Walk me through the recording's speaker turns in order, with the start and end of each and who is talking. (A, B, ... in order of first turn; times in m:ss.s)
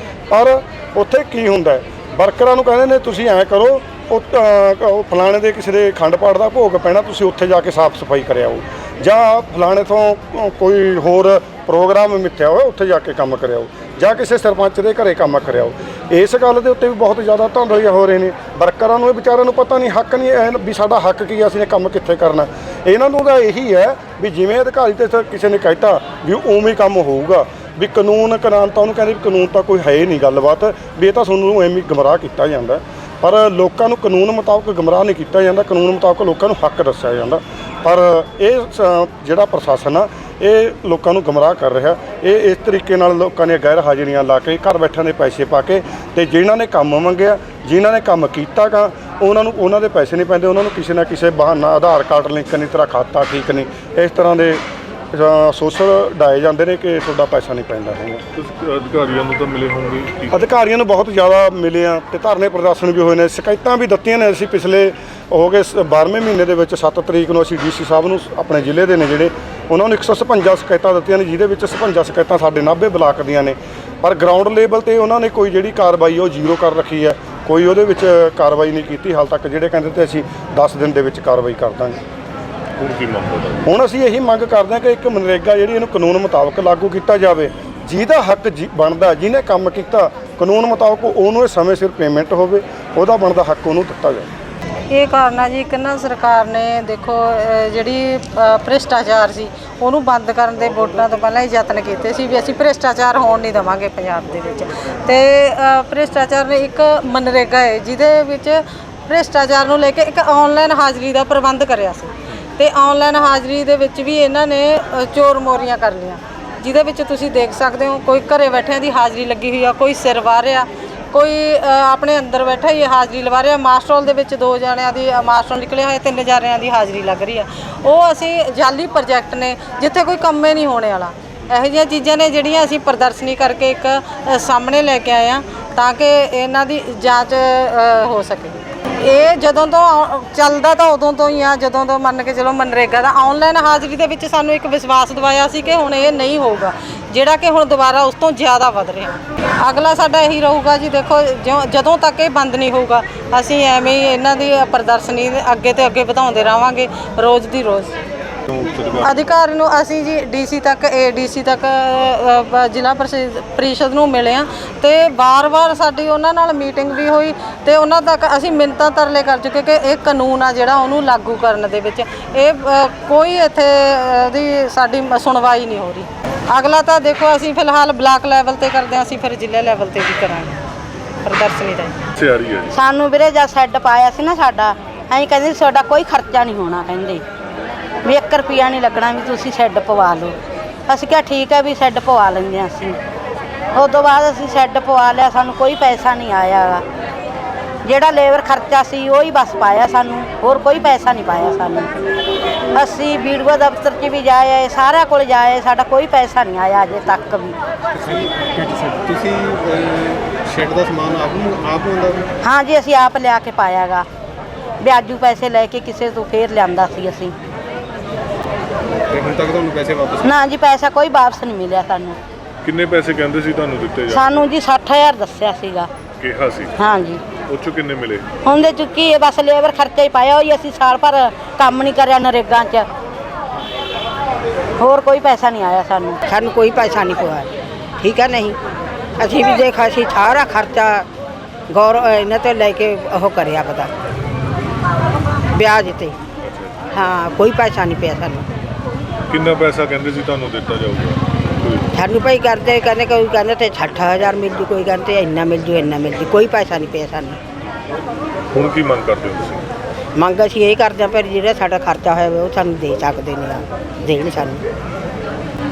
0:00.3-0:58.2 A
0:58.3-1:00.5 B
1:00.3-1:22.0 A
1:22.8-1:23.7 B
1:23.6-1:34.3 A
1:34.9-2:37.9 C
2:38.5-2:39.0 B
2:39.0-3:00.5 C
3:01.2-3:02.0 C
3:02.2-3:02.7 B
3:02.7-3:07.2 D
3:08.0-3:10.3 D
3:10.9-3:13.0 D
3:13.7-3:16.8 D
3:17.8-3:21.9 D
3:22.7-3:27.6 D
3:28.0-3:32.3 E
3:32.4-3:34.0 D
3:34.8-3:37.3 D
3:39.1-3:40.2 E
3:40.2-3:42.2 D
3:42.6-3:44.5 B
3:44.1-3:45.9 D
3:46.2-3:46.8 B
3:46.8-3:47.2 D
3:47.5-3:48.2 B
3:48.4-3:52.9 D
3:54.8-3:56.2 D
3:56.3-3:58.6 F
3:59.2-4:01.1 F
4:01.7-4:03.9 F
4:05.5-4:06.2 F
4:06.4-4:06.8 B
4:06.9-4:08.4 F
4:09.3-4:11.9 B
4:11.9-4:17.4 F
4:18.5-4:19.6 B
4:20.1-4:24.6 F